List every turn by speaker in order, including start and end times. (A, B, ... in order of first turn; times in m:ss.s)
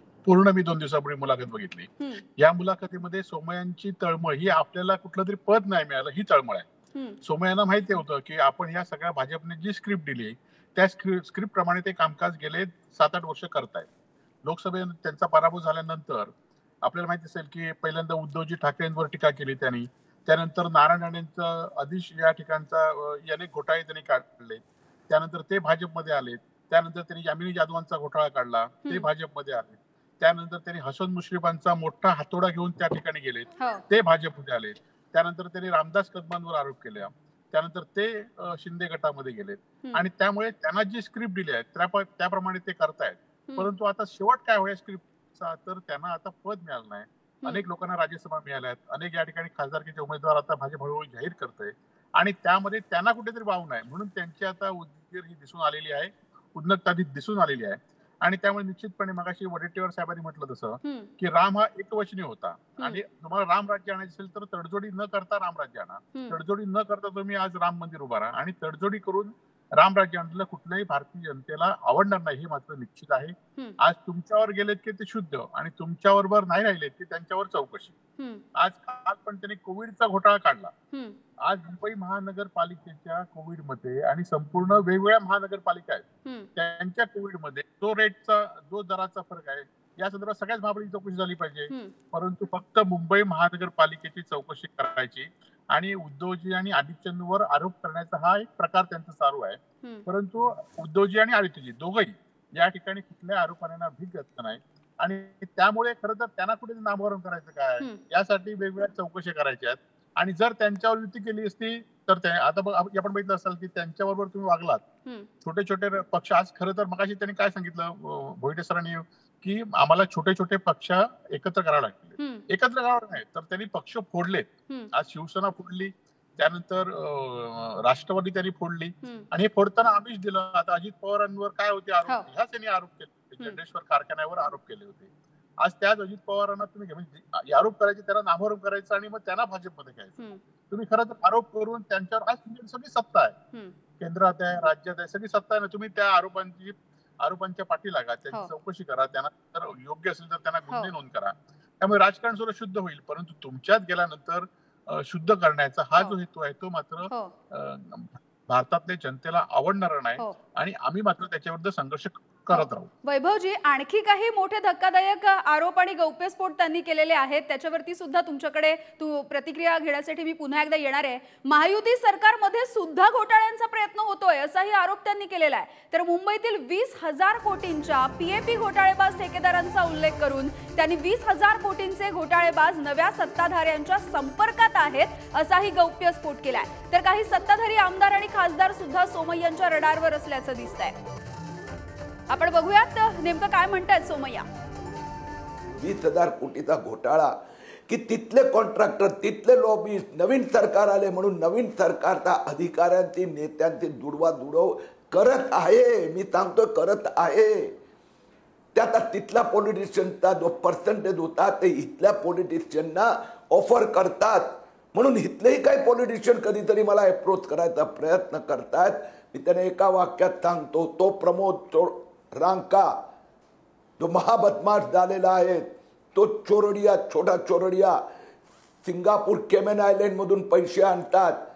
0:00.2-0:06.6 A
0:06.9-0:07.2 B
0:07.2-0:13.9 A
0:14.4-1:18.0 A
0:33.6-0:33.8 B
1:00.8-1:01.1 B
1:18.2-1:18.4 B
1:18.6-1:20.7 A
1:20.9-1:21.2 B
1:21.4-1:26.0 A
1:26.2-1:26.5 B
1:26.6-1:54.8 A
1:55.4-2:23.4 A
2:02.2-2:02.4 B
2:24.0-2:42.9 A
2:42.5-3:11.0 B
3:12.3-3:14.4 B
3:15.8-3:27.7 C
3:28.7-3:43.0 C
3:44.0-3:48.0 C
3:48.8-3:51.4 C